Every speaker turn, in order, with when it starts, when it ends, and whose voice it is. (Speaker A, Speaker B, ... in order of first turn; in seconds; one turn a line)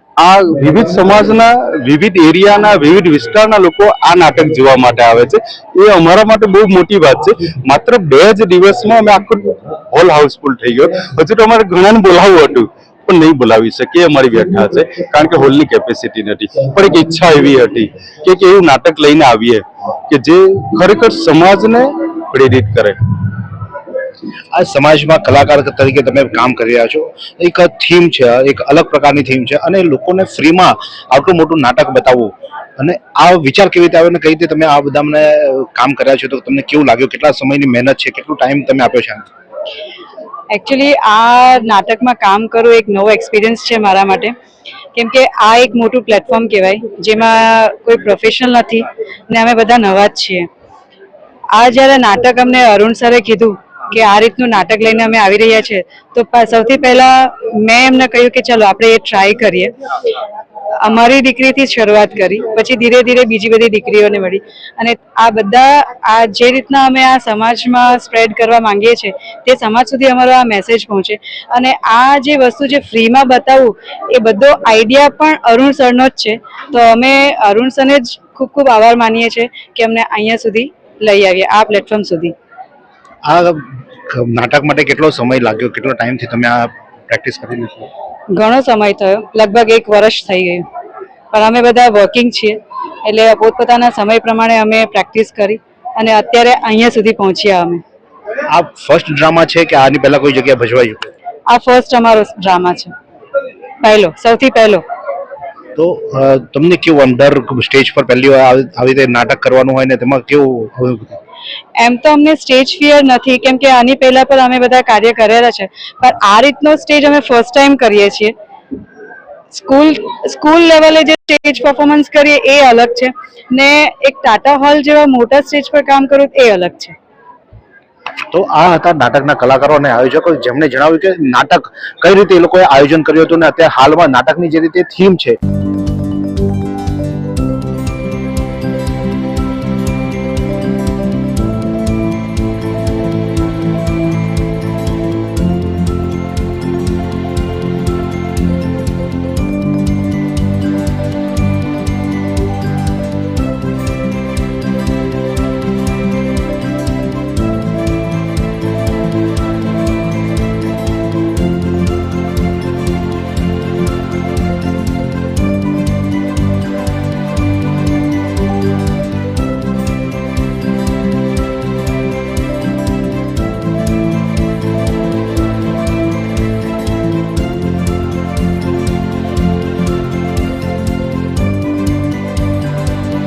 Speaker A: 0.2-23.0
Speaker B: 24.5-39.3
Speaker C: 40.5-44.3
Speaker C: 44.9-50.5
Speaker C: 51.5-59.7
Speaker C: 60.8-82.3
Speaker B: 83.2-87.9
Speaker C: 88.3-90.7
Speaker C: 91.3-97.8
Speaker B: 98.5-101.1
Speaker C: 101.5-102.9
Speaker C: 103.8-104.8
Speaker B: 105.8-111.2
Speaker C: 111.8-118.3
Speaker C: 119.5-126.9
Speaker B: 128.3-135.4